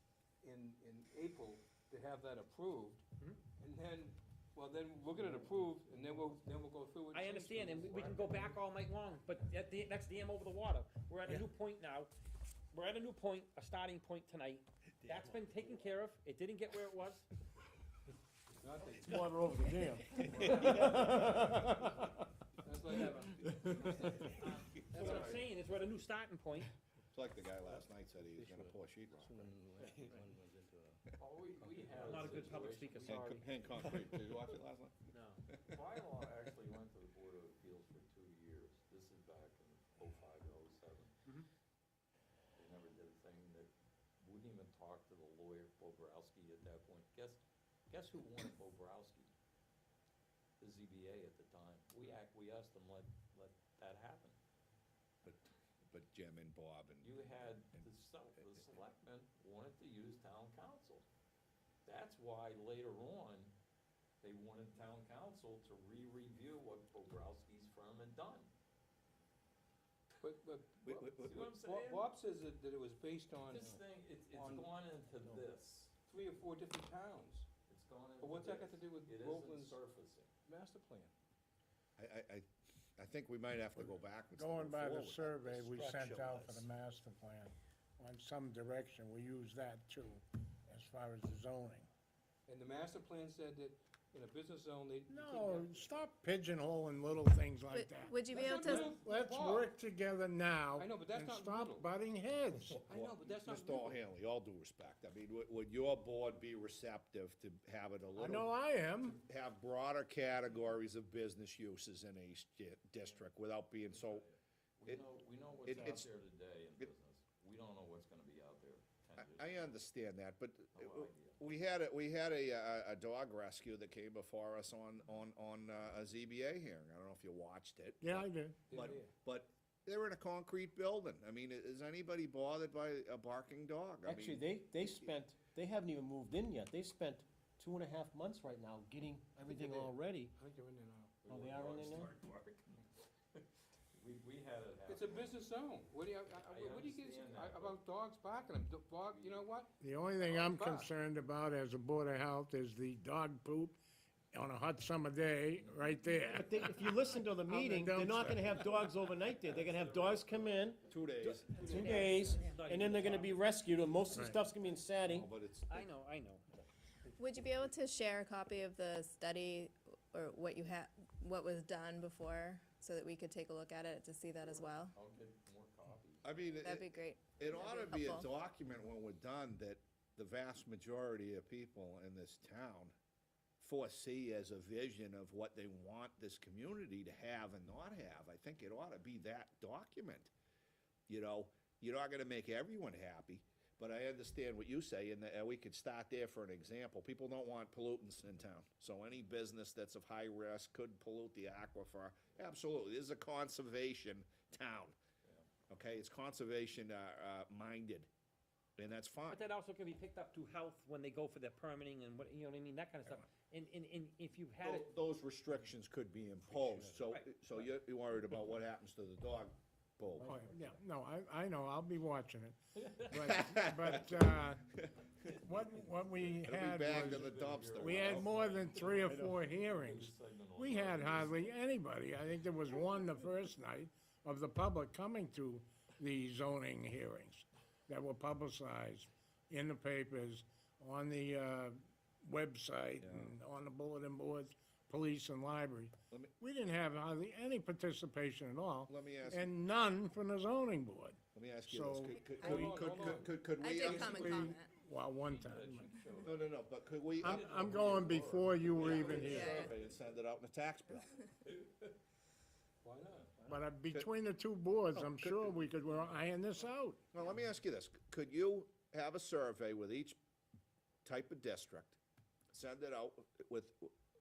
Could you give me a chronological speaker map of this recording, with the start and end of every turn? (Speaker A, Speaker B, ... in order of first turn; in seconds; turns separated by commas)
Speaker A: 0.4-3.0, Speaker A: 3.6-8.4, Speaker B: 7.1-12.1, Speaker B: 12.7-17.3, Speaker A: 18.6-19.2, Speaker C: 19.0-22.1, Speaker A: 20.4-20.7, Speaker A: 22.6-24.3, Speaker B: 22.9-23.4, Speaker B: 24.2-26.7, Speaker D: 24.9-25.4, Speaker A: 24.9-25.4, Speaker D: 27.1-29.4, Speaker A: 28.4-30.9, Speaker E: 31.2-33.5, Speaker A: 31.6-31.9, Speaker B: 31.9-33.5, Speaker D: 33.0-35.6, Speaker B: 35.1-35.4, Speaker E: 35.7-41.1, Speaker E: 42.5-49.3, Speaker E: 50.6-54.4, Speaker D: 55.2-57.2, Speaker E: 57.0-61.1, Speaker E: 61.8-63.5, Speaker E: 64.2-68.5, Speaker A: 70.2-73.7, Speaker D: 70.8-71.5, Speaker E: 71.2-72.1, Speaker E: 73.5-75.9, Speaker A: 74.3-74.7, Speaker A: 76.0-77.5, Speaker E: 77.7-80.3, Speaker A: 78.2-79.8, Speaker A: 80.4-81.1, Speaker D: 82.0-82.5, Speaker D: 83.0-86.7, Speaker F: 83.8-91.9, Speaker A: 92.5-96.0, Speaker F: 95.1-102.8, Speaker G: 97.7-98.9, Speaker A: 98.3-99.7, Speaker A: 100.8-101.9, Speaker A: 102.8-104.0, Speaker D: 102.9-108.5, Speaker F: 108.2-109.2, Speaker D: 109.2-114.2, Speaker E: 113.9-119.6, Speaker D: 115.6-116.1, Speaker D: 119.2-134.4, Speaker E: 120.7-121.4, Speaker F: 128.0-128.8, Speaker A: 128.7-129.1, Speaker C: 134.0-140.3, Speaker A: 139.5-141.2, Speaker E: 141.2-145.4, Speaker C: 141.2-142.1, Speaker A: 144.9-149.7, Speaker E: 146.4-147.8, Speaker E: 149.1-149.5, Speaker F: 149.8-153.8, Speaker A: 150.4-150.9, Speaker F: 154.3-156.6, Speaker E: 155.5-155.9, Speaker C: 156.2-160.8, Speaker F: 157.5-158.5, Speaker E: 159.2-160.7, Speaker D: 160.8-162.3, Speaker B: 161.2-163.4, Speaker C: 161.6-165.3, Speaker E: 161.6-162.3, Speaker F: 164.1-164.4, Speaker D: 165.0-165.9, Speaker B: 165.7-166.6, Speaker G: 167.2-174.9, Speaker E: 174.9-176.2, Speaker D: 176.2-182.9, Speaker G: 176.6-178.3, Speaker D: 183.6-190.3, Speaker D: 191.1-205.0, Speaker D: 205.7-208.1, Speaker D: 208.8-209.4, Speaker B: 209.2-214.9, Speaker D: 214.6-220.3, Speaker C: 216.5-216.9, Speaker B: 217.0-217.3, Speaker C: 220.2-220.8, Speaker F: 220.3-222.6, Speaker F: 223.1-224.7, Speaker D: 223.2-224.8, Speaker F: 225.3-252.7, Speaker D: 226.4-228.3, Speaker E: 226.9-231.5, Speaker D: 243.0-243.3, Speaker D: 248.9-249.5, Speaker D: 251.3-254.5, Speaker G: 252.2-254.7, Speaker A: 252.4-254.0, Speaker F: 253.8-255.9, Speaker E: 255.2-256.6, Speaker D: 256.2-261.2, Speaker F: 257.2-259.5, Speaker E: 257.2-259.8, Speaker G: 258.9-259.7, Speaker E: 261.4-261.9, Speaker A: 262.8-263.3, Speaker F: 263.5-267.0, Speaker D: 264.9-265.6, Speaker D: 267.1-270.2, Speaker D: 271.0-272.0, Speaker D: 272.5-273.9